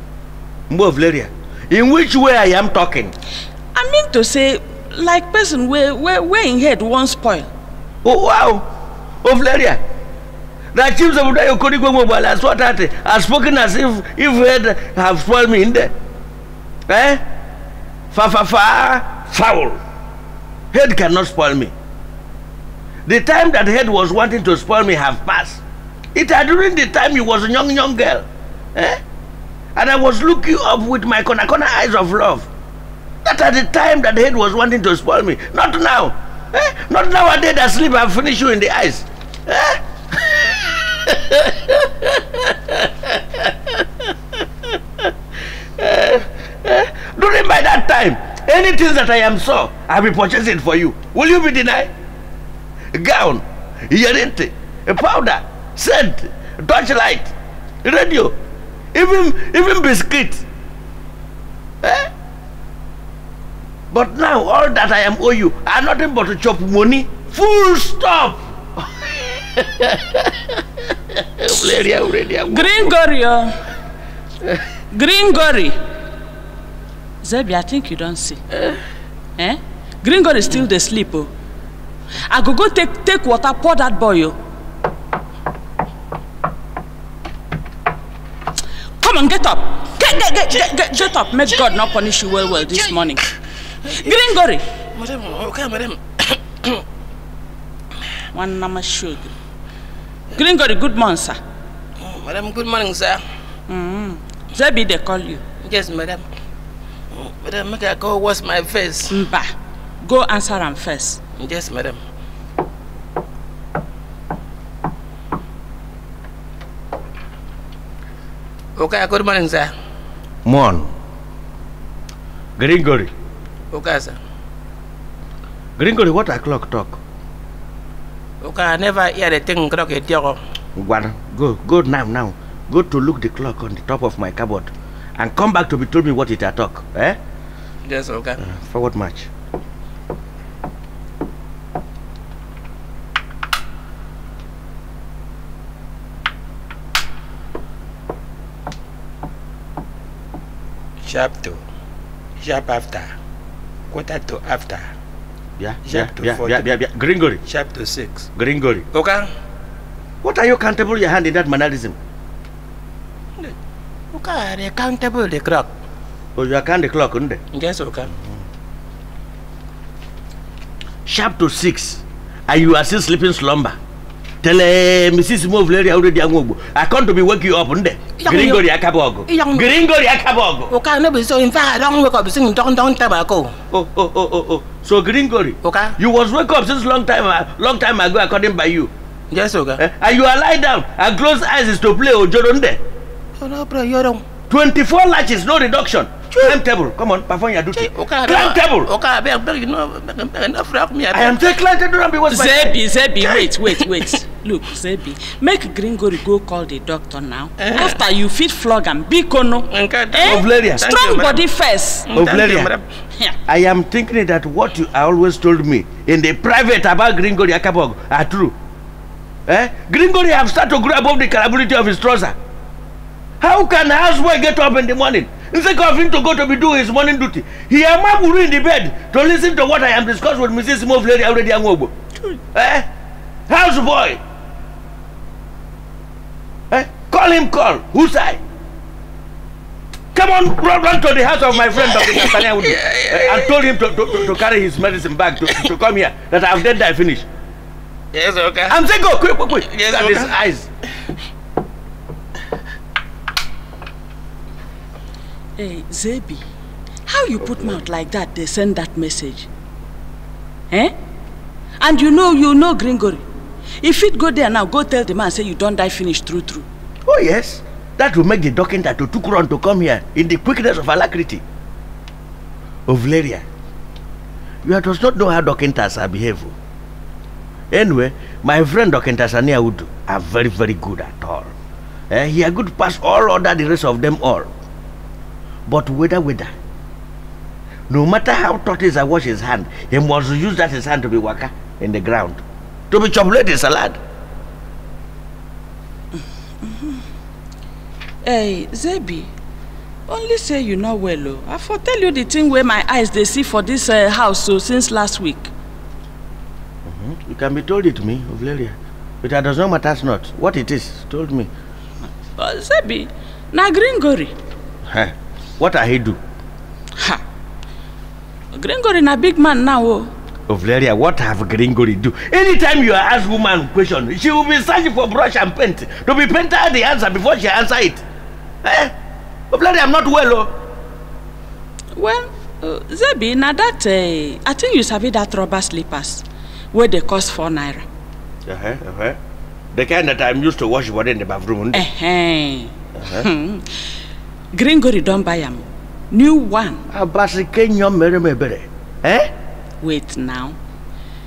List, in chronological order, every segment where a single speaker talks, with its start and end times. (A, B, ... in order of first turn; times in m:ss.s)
0:00.7-0:03.1 A
0:03.7-0:07.5 B
0:08.0-0:08.6 A
0:09.2-0:09.8 A
0:10.7-0:15.9 A
0:16.9-0:17.2 A
0:18.1-0:19.8 A
0:20.7-0:21.7 A
0:23.0-0:25.6 A
0:26.1-0:29.0 A
0:29.8-0:32.5 A
0:33.2-0:44.1 A
0:45.8-0:51.9 A
0:52.9-0:58.4 A
0:58.9-1:00.4 A
1:01.8-1:02.1 A
1:03.9-1:12.9 A
1:12.5-1:13.6 B
1:14.9-1:15.7 B
1:17.2-1:18.4 B
1:19.4-1:21.3 B
1:22.2-1:24.4 B
1:29.0-1:33.2 B
1:32.4-1:33.2 C
1:33.8-1:34.1 C
1:33.8-1:34.6 B
1:34.8-1:36.8 C
1:38.3-1:39.3 B
1:40.3-1:41.4 B
1:42.0-1:43.2 C
1:43.7-1:45.4 B
1:45.6-1:46.2 C
1:47.1-1:49.2 C
1:49.1-1:51.2 B
1:51.4-1:52.0 C
1:58.8-1:59.7 C
2:00.4-2:00.9 A
2:02.6-2:03.1 A
2:03.7-2:04.2 C
2:05.8-2:07.0 A
2:08.4-2:10.4 C
2:10.8-2:17.2 A
2:17.8-2:18.4 C
2:18.4-2:19.3 A
2:31.0-2:31.6 C
2:32.4-2:33.1 C
2:33.9-2:34.9 C
2:35.6-2:37.4 A
2:35.8-2:36.7 C
2:37.5-2:38.3 C
2:38.4-2:38.9 A
2:38.9-2:39.3 C
2:40.2-2:42.0 A
2:44.1-2:45.7 C
2:46.4-2:47.4 A
2:47.5-2:48.1 C
2:51.0-2:53.8 A
2:54.4-3:00.7 A
2:58.2-2:58.6 C
2:59.3-2:59.7 C
3:00.7-3:03.5 C
3:03.7-3:08.9 A
3:05.6-3:05.9 C
3:09.3-3:09.8 C
3:09.8-3:12.8 A
3:13.4-3:14.2 C
3:14.5-3:18.9 A
3:16.3-3:16.6 C
3:17.7-3:21.6 C
3:21.1-3:22.8 A
3:22.3-3:32.1 B
3:23.2-3:24.1 C
3:27.6-3:28.0 C
3:29.7-3:31.4 C
3:30.2-3:30.9 A
3:32.1-3:32.9 C
3:32.1-3:32.7 A
3:33.4-3:38.5 A
3:39.5-3:42.4 A
3:43.4-3:51.9 A
3:52.5-3:52.9 A
3:53.5-3:54.2 A
3:56.7-3:58.4 A
4:00.1-4:07.3 A
4:01.7-4:04.4 C
4:08.1-4:08.8 C
4:08.7-4:10.7 A
4:09.5-4:10.4 C
4:15.6-4:16.4 B
4:17.1-4:19.5 B
4:21.8-4:23.2 B
4:23.8-4:26.6 B
4:27.1-4:31.4 A
4:32.9-4:33.4 A
4:34.6-4:36.6 A
4:37.7-4:41.5 A
4:42.1-4:44.5 A
4:45.7-4:46.5 A
4:47.9-4:54.0 A
4:56.6-4:57.0 B
4:58.2-4:59.3 B
5:00.1-5:05.5 B
5:06.8-5:11.5 A
5:12.3-5:14.3 B
5:14.9-5:16.2 A
5:17.0-5:17.2 B
5:18.5-5:20.1 B
5:20.5-5:28.0 A
5:28.6-5:28.9 A
5:29.5-5:30.5 A
5:31.9-5:37.8 B
5:38.4-5:39.2 A
5:39.7-5:41.8 A
5:41.7-5:43.7 B
5:43.0-5:43.2 A
5:44.5-5:46.8 B
5:46.9-5:49.3 A
5:49.8-5:50.6 B